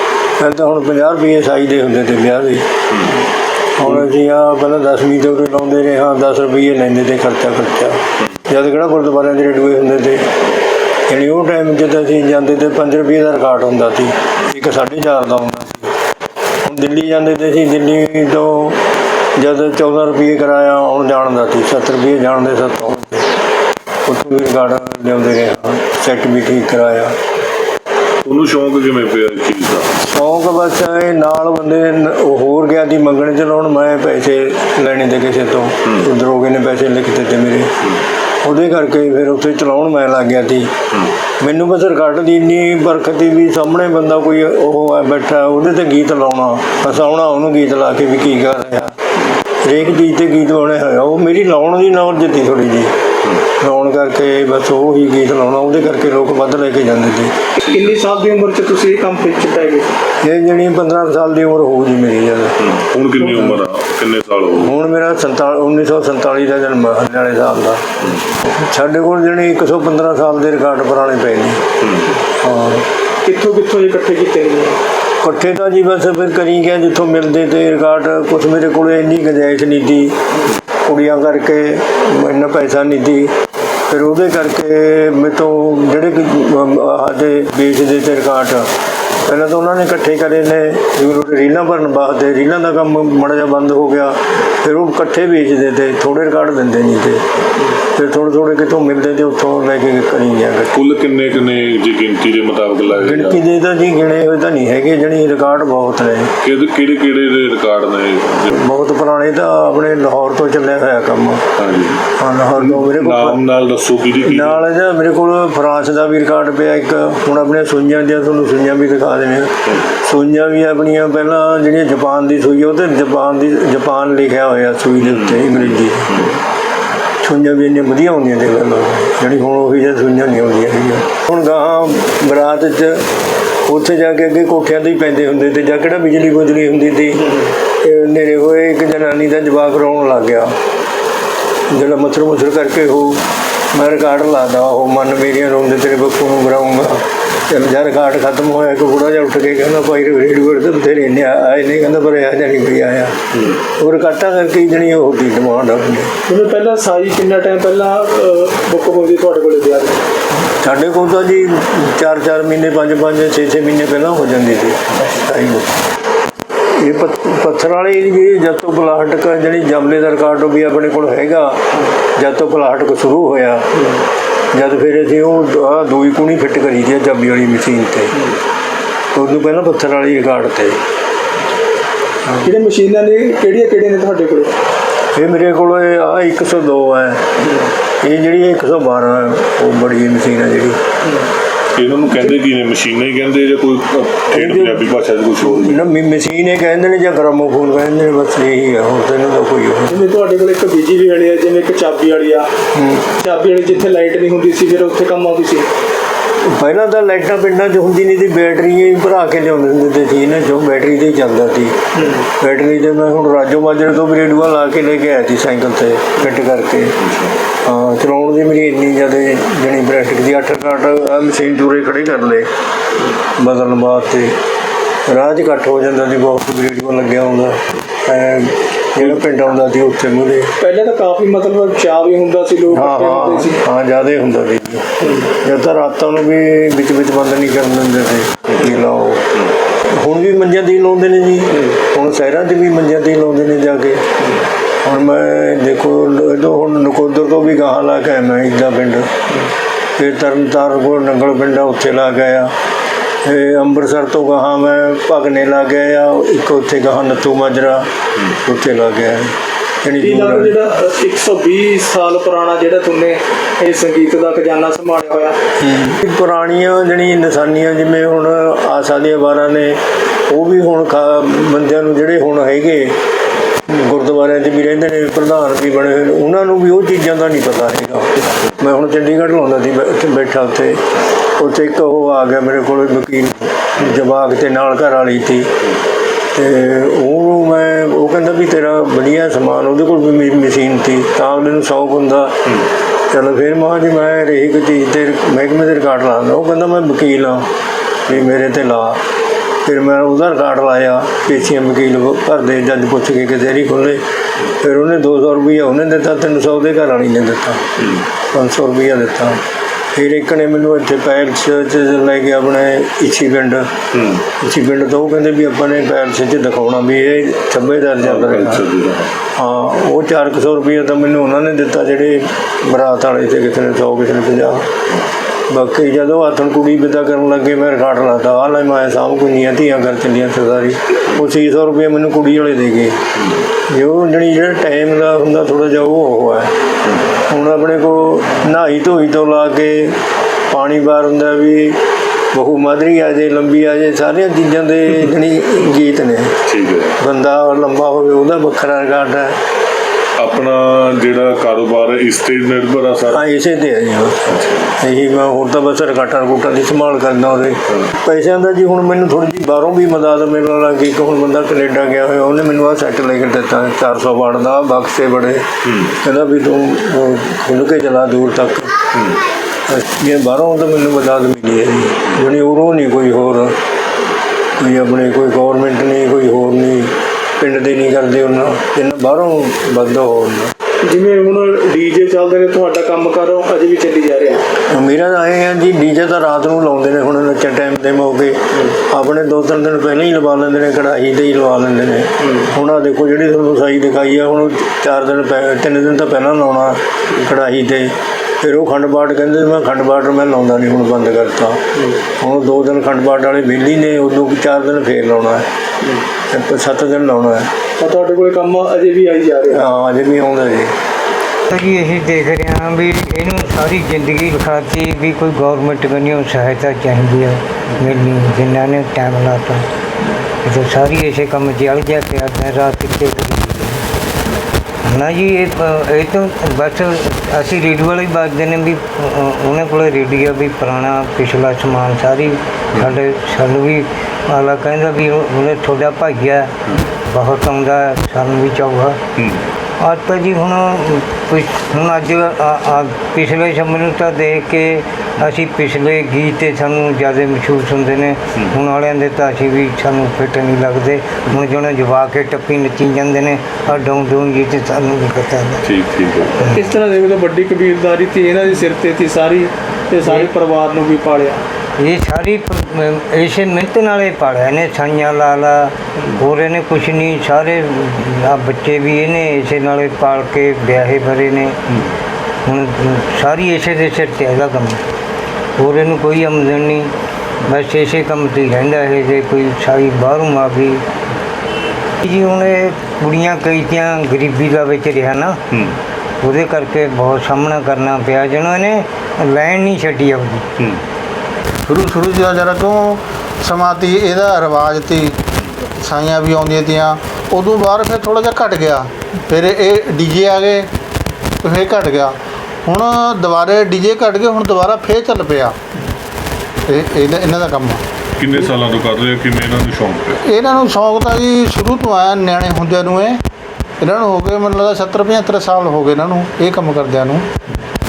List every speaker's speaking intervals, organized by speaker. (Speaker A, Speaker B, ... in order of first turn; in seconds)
Speaker A: 0.4-2.8, 3.8-10.4, 11.1-15.9, 16.6-23.3, 24.1-27.2, 30.0-37.7, 38.4-40.8, 41.4-49.0, 49.6-57.5, 60.2-62.6, 64.6-67.9, 68.5-71.7, 72.4-72.9, 75.2-80.2, 80.8-83.4, 83.9-88.7, 89.2-100.8, 102.9-106.3, 108.5-111.5, 112.2-113.4, 114.2-126.3, 127.2-133.1, 133.7-140.6, 141.7-156.1, 160.6-165.8, 166.8-173.7, 174.5-178.2, 179.1-180.8, 185.2-187.2, 188.0-190.8, 194.3-194.9, 195.4-200.0, 202.8-203.1, 206.4-211.8, 212.4-217.0, 217.5-222.5, 223.4-224.4, 225.1-230.5, 232.7-244.1, 244.8-249.1, 250.0-252.5, 253.2-260.6, 265.6-273.0, 273.7-285.5, 286.3-292.5, 293.1-297.5, 298.1-299.0, 299.6-304.0, 304.6-309.4, 309.9-313.7, 314.3-318.6, 319.4-324.7, 325.5-333.0, 333.7-336.5, 337.3-340.0, 340.5-341.8, 342.3-346.4, 347.0-349.4, 353.1-368.8, 369.7-373.6, 374.6-380.5, 384.7-401.6, 402.2-405.5, 406.3-407.5, 409.5-410.7
Speaker B: 2.9-3.2, 28.2-30.0, 62.6-64.7, 68.0-68.3, 71.8-72.2, 100.7-103.4, 106.4-108.6, 111.6-114.6, 125.0-126.4, 191.8-195.8, 217.0-217.3, 307.8-308.1, 313.9-314.2, 318.0-319.1, 346.5-347.0, 350.2-353.2, 354.3-354.7, 365.6-365.9, 368.9-369.2, 439.2-439.4, 455.6-456.5, 485.5-485.8, 508.2-510.2
Speaker C: 57.7-59.9, 73.2-74.8, 156.3-160.0, 182.5-184.5, 199.9-202.5, 203.2-205.7, 230.6-233.6, 260.0-265.4, 380.9-384.4, 407.8-409.6, 456.6-461.4
Speaker D: 411.5-419.7, 420.4-423.9, 424.8-439.0, 439.8-455.7, 456.4-456.7, 461.8-471.6, 472.4-474.8, 475.6-476.9, 477.4-480.8, 482.0-485.4, 486.2-490.5
Speaker E: 491.7-500.7, 501.4-505.6, 506.7-507.8, 510.2-513.2, 513.8-517.3